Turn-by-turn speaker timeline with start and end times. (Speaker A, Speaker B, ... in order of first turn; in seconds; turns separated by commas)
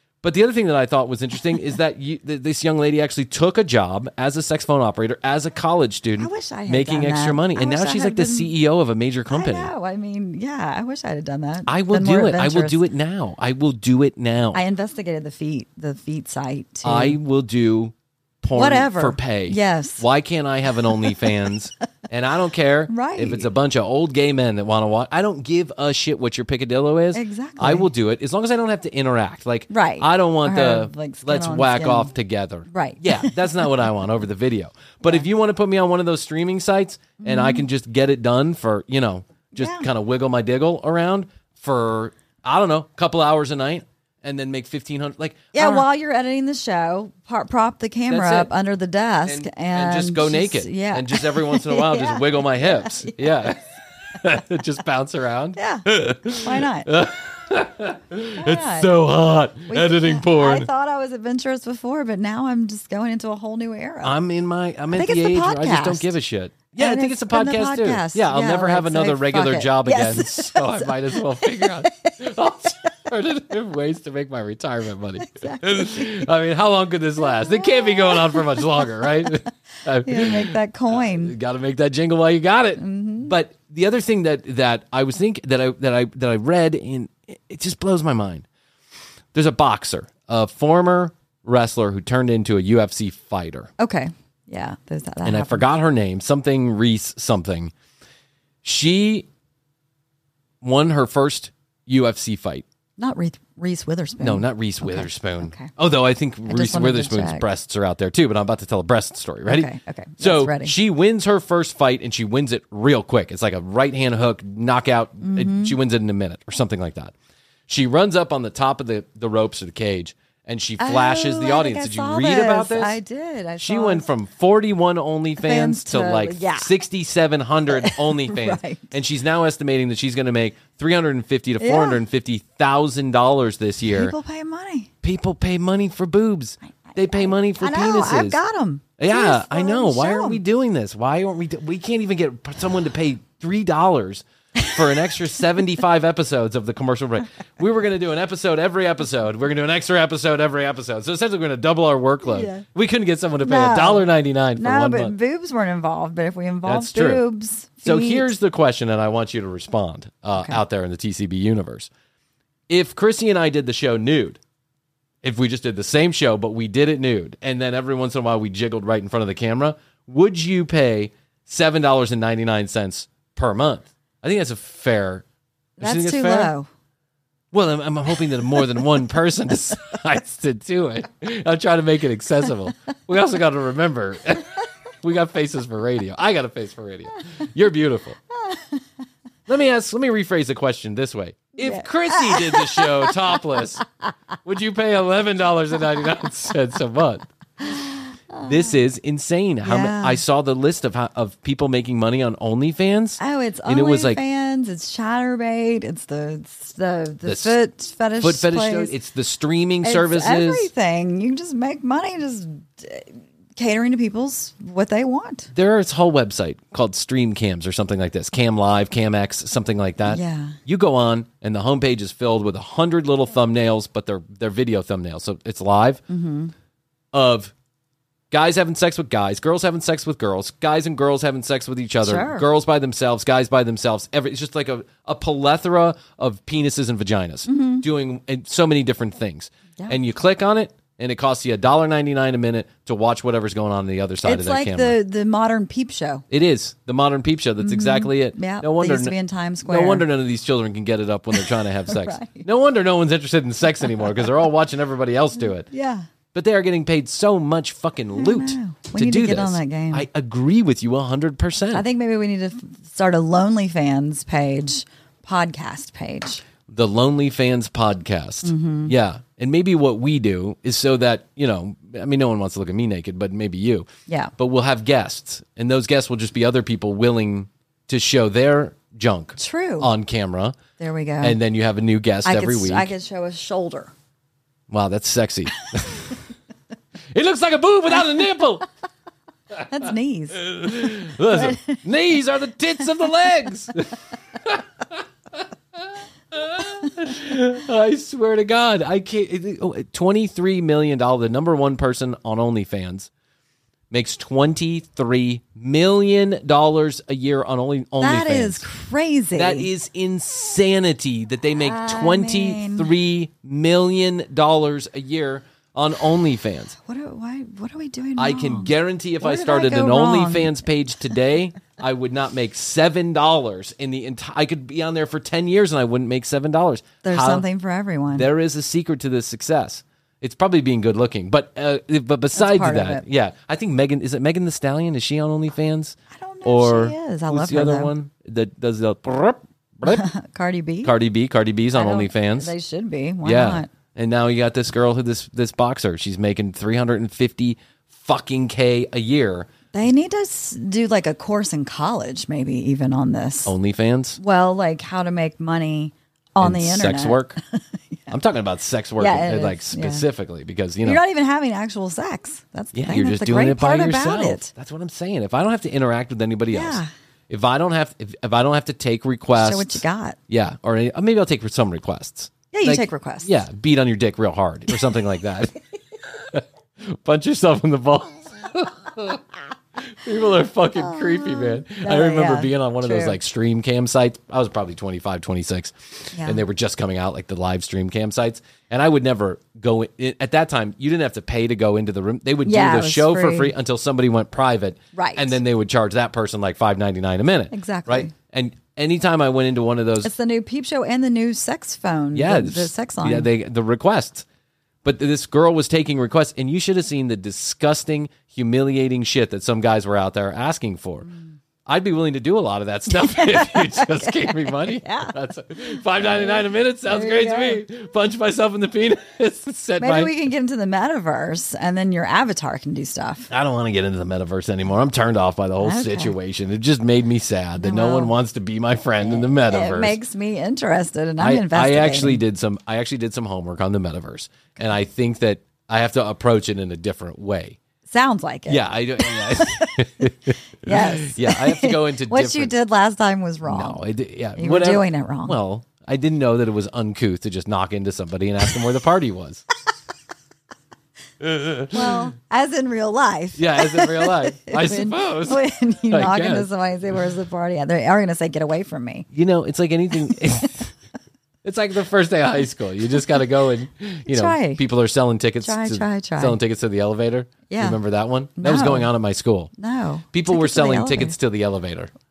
Speaker A: 0.2-9.7, Speaker B: 6.2-8.5, Speaker B: 9.3-12.8, Speaker A: 11.7-14.6, Speaker B: 14.5-17.2, Speaker A: 16.8-45.9, Speaker B: 18.5-20.0, Speaker B: 22.9-23.5, Speaker B: 27.1-27.9, Speaker B: 29.7-32.1, Speaker B: 32.7-33.4, Speaker B: 37.2-37.7, Speaker B: 39.5-39.9, Speaker B: 45.5-53.5, Speaker A: 48.1-48.5, Speaker A: 49.2-53.6, Speaker A: 54.1-60.7, Speaker B: 55.6-56.9, Speaker B: 58.4-58.9, Speaker B: 59.7-64.2, Speaker A: 64.0-88.5, Speaker B: 64.9-66.1, Speaker B: 66.7-72.2, Speaker B: 75.2-76.2, Speaker B: 77.3-78.6, Speaker B: 80.0-81.3, Speaker B: 82.8-83.3, Speaker A: 89.3-93.7, Speaker B: 93.8-95.7, Speaker A: 95.2-97.7, Speaker A: 98.6-99.3, Speaker A: 100.6-102.6, Speaker B: 103.0-105.7, Speaker A: 104.2-117.1, Speaker B: 106.5-107.5, Speaker B: 109.5-110.7, Speaker B: 115.2-115.8, Speaker A: 117.7-123.0, Speaker B: 120.8-124.0, Speaker A: 123.6-134.1, Speaker B: 125.4-126.7, Speaker B: 127.7-129.0, Speaker B: 131.6-132.0, Speaker B: 133.9-134.9, Speaker A: 135.0-138.4, Speaker B: 136.6-140.4, Speaker A: 139.0-155.2, Speaker B: 152.2-152.7, Speaker B: 153.4-158.3, Speaker A: 156.6-157.2, Speaker A: 157.8-161.9, Speaker A: 162.7-164.4, Speaker A: 165.2-175.2, Speaker A: 175.8-176.5, Speaker B: 175.8-176.7, Speaker A: 177.5-188.2, Speaker B: 188.4-188.8, Speaker A: 189.5-193.8, Speaker B: 191.6-193.6, Speaker A: 194.4-197.3, Speaker B: 198.3-198.6, Speaker A: 198.4-204.2, Speaker B: 199.6-200.2, Speaker B: 203.2-208.9, Speaker A: 207.2-207.6, Speaker A: 208.2-210.7, Speaker B: 209.8-215.5, Speaker A: 215.5-226.0, Speaker B: 220.1-220.6, Speaker B: 226.1-226.5, Speaker A: 227.1-227.5, Speaker A: 228.3-245.0, Speaker B: 232.0-232.4, Speaker B: 237.4-237.8, Speaker B: 244.2-246.2, Speaker A: 246.3-255.7, Speaker B: 247.6-250.1, Speaker B: 251.3-252.5, Speaker B: 255.7-256.1, Speaker A: 256.3-261.9, Speaker B: 258.1-260.1, Speaker B: 261.7-266.4, Speaker A: 266.7-280.6, Speaker B: 268.4-268.9, Speaker B: 279.4-279.9, Speaker B: 280.8-281.4, Speaker A: 281.2-282.9, Speaker B: 282.2-283.9, Speaker A: 284.7-286.1, Speaker A: 287.1-288.6, Speaker B: 289.6-291.9, Speaker A: 290.3-293.9, Speaker A: 295.3-295.8, Speaker A: 296.3-303.1, Speaker A: 303.9-308.6, Speaker B: 308.0-309.7, Speaker A: 309.3-316.8, Speaker B: 311.6-312.9, Speaker B: 316.8-320.6, Speaker A: 318.2-327.4, Speaker B: 327.0-328.3, Speaker A: 328.1-340.0, Speaker B: 332.4-333.0, Speaker B: 336.1-337.9, Speaker B: 339.9-340.9, Speaker A: 340.8-342.5, Speaker B: 341.7-343.7, Speaker A: 343.2-349.5, Speaker B: 349.7-353.5, Speaker A: 353.4-354.2, Speaker B: 354.2-358.1, Speaker A: 356.4-357.4, Speaker A: 358.1-361.0, Speaker B: 359.0-360.1, Speaker B: 360.8-364.5, Speaker A: 362.7-375.5, Speaker B: 366.5-366.9, Speaker B: 369.4-370.2, Speaker B: 372.5-373.3, Speaker A: 376.1-379.2, Speaker A: 379.8-400.1, Speaker B: 380.9-383.2, Speaker B: 386.1-386.4, Speaker B: 392.4-393.5, Speaker B: 394.9-395.4, Speaker B: 397.5-398.1, Speaker B: 400.0-403.3, Speaker A: 402.1-404.2, Speaker A: 404.8-411.1, Speaker B: 411.1-411.3, Speaker A: 411.6-420.1, Speaker B: 412.9-415.1, Speaker B: 416.0-417.6, Speaker B: 419.8-423.3, Speaker A: 423.3-430.0, Speaker B: 425.6-426.1, Speaker B: 427.6-428.1, Speaker B: 429.0-432.2, Speaker A: 431.2-437.6, Speaker B: 437.9-439.8, Speaker A: 438.5-442.5, Speaker B: 440.6-443.8, Speaker A: 443.4-449.4, Speaker B: 444.4-445.4, Speaker A: 451.2-452.1, Speaker B: 451.7-459.1, Speaker A: 453.4-456.5, Speaker A: 459.1-460.7, Speaker A: 461.4-469.5, Speaker B: 464.1-464.6, Speaker B: 465.4-466.4, Speaker B: 467.5-467.8, Speaker B: 468.4-468.9, Speaker B: 469.6-471.1, Speaker A: 470.1-471.9